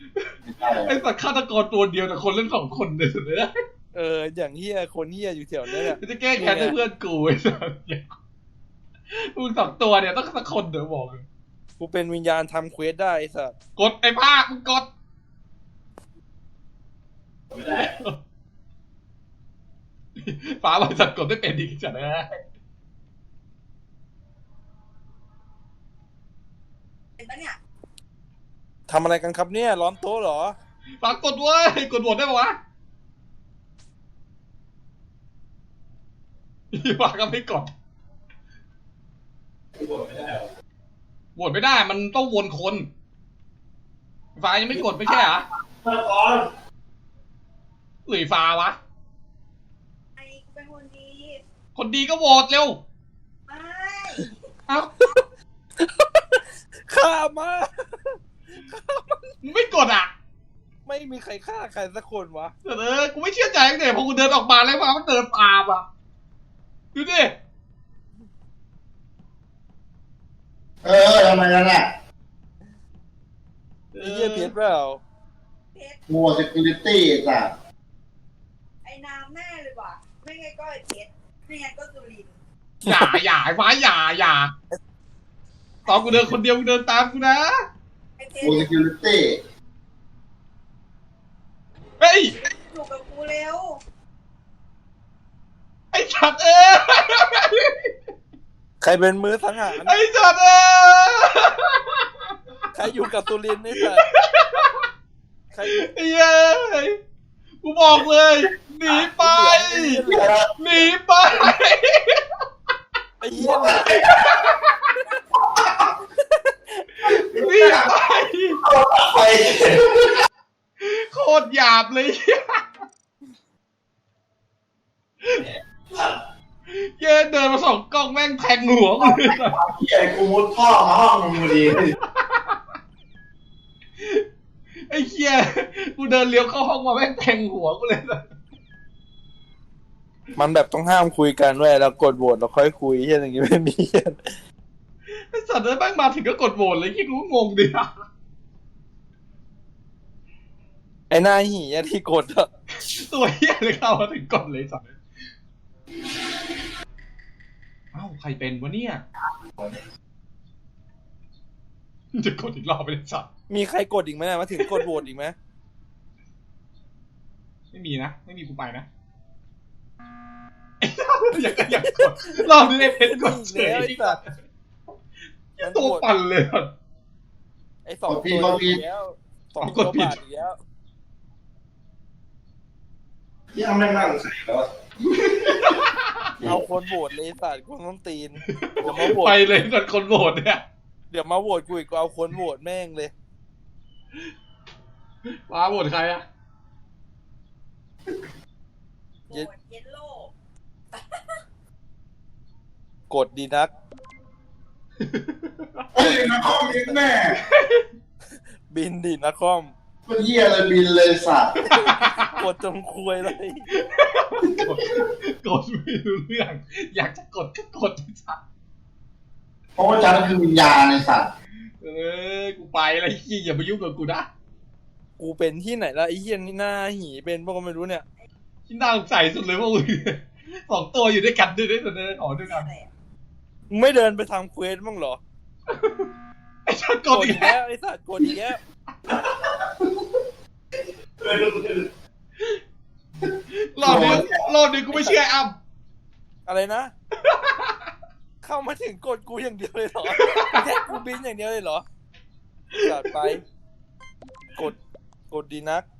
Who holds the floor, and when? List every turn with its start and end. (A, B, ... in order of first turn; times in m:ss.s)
0:00.2-0:03.5 A
0:00.5-0:01.0 B
0:03.9-0:06.8 C
0:05.7-0:08.0 A
0:09.1-0:11.2 A
0:11.8-0:13.6 C
0:13.8-0:14.9 A
0:17.6-0:18.2 A
0:20.2-0:22.4 A
0:27.2-0:27.6 D
0:28.9-0:30.6 C
0:31.0-0:32.6 A
0:36.7-0:37.7 A
0:39.8-0:40.5 E
0:41.4-0:42.9 A
0:44.4-0:45.5 A
0:45.8-0:46.5 E
0:48.1-0:48.8 A
0:50.2-0:51.4 D
0:51.8-0:52.8 A
0:53.5-0:54.4 D
0:54.7-0:55.1 A
0:55.8-0:59.3 C
0:59.4-1:00.1 A
1:00.9-1:02.5 C
1:02.6-1:05.8 A
1:07.0-1:07.4 A
1:10.8-1:11.9 B
1:13.9-1:14.5 A
1:14.0-1:15.0 C
1:15.7-1:16.0 D
1:16.1-1:17.5 B
1:18.8-1:22.3 D
1:22.8-1:23.2 C
1:22.9-1:24.5 A
1:25.9-1:27.5 A
1:28.2-1:28.7 D
1:28.4-1:29.4 B
1:32.0-1:32.3 A
1:32.5-1:33.8 D
1:35.9-1:37.9 A
1:38.8-1:40.0 C
1:39.8-1:42.0 A
1:42.7-1:44.1 C
1:44.1-1:44.8 A
1:45.5-1:45.9 C
1:45.7-1:47.0 A
1:47.6-1:50.0 A
1:48.9-1:50.4 C
1:50.0-1:50.5 B
1:50.6-1:52.2 A
1:53.2-1:54.0 C
1:53.4-1:54.4 B
1:54.2-1:54.9 A
1:57.1-1:57.9 B
1:57.3-1:58.6 A
1:58.7-2:00.1 B
1:59.2-1:59.8 E
2:00.8-2:02.6 A
2:05.4-2:06.2 E
2:06.7-2:09.6 A
2:09.0-2:11.9 B
2:12.1-2:12.6 A
2:14.0-2:14.2 A
2:14.9-2:18.2 A
2:20.4-2:24.4 C
2:25.3-2:27.9 A
2:31.1-2:32.5 C
2:32.8-2:35.0 A
2:37.9-2:39.0 A
2:42.2-2:43.3 A
2:43.5-2:45.4 C
2:44.6-2:44.9 A
2:47.7-2:48.9 A
2:50.8-2:54.3 A
2:51.4-2:54.2 C
2:55.6-2:56.7 A
2:55.6-2:56.1 C
2:57.8-3:00.6 C
2:58.1-2:58.8 B
2:59.6-3:00.2 A
3:03.5-3:05.8 B
3:05.6-3:06.1 A
3:06.4-3:09.4 C
3:08.5-3:10.6 A
3:11.1-3:13.1 C
3:15.3-3:16.2 A
3:19.3-3:20.3 D
3:20.9-3:21.2 D
3:23.1-3:23.7 C
3:25.0-3:25.8 A
3:26.0-3:27.4 B
3:27.3-3:27.8 A
3:28.7-3:29.7 C
3:30.1-3:31.5 B
3:31.6-3:33.7 C
3:31.7-3:32.2 A
3:33.8-3:38.4 A
3:39.8-3:41.3 B
3:41.8-3:44.3 A
3:45.2-3:48.0 C
3:48.7-3:52.7 A
3:52.4-3:52.9 D
3:53.7-3:55.2 C
3:55.7-3:56.1 A
3:56.7-3:57.5 A
3:57.1-3:58.6 C
4:01.2-4:01.9 E
4:03.5-4:05.5 A
4:03.8-4:04.5 B
4:03.9-4:04.2 C
4:04.9-4:05.2 C
4:06.5-4:06.9 C
4:07.2-4:07.7 A
4:08.4-4:11.8 C
4:10.1-4:10.6 A
4:12.8-4:13.3 A
4:12.8-4:13.4 C
4:15.3-4:15.8 C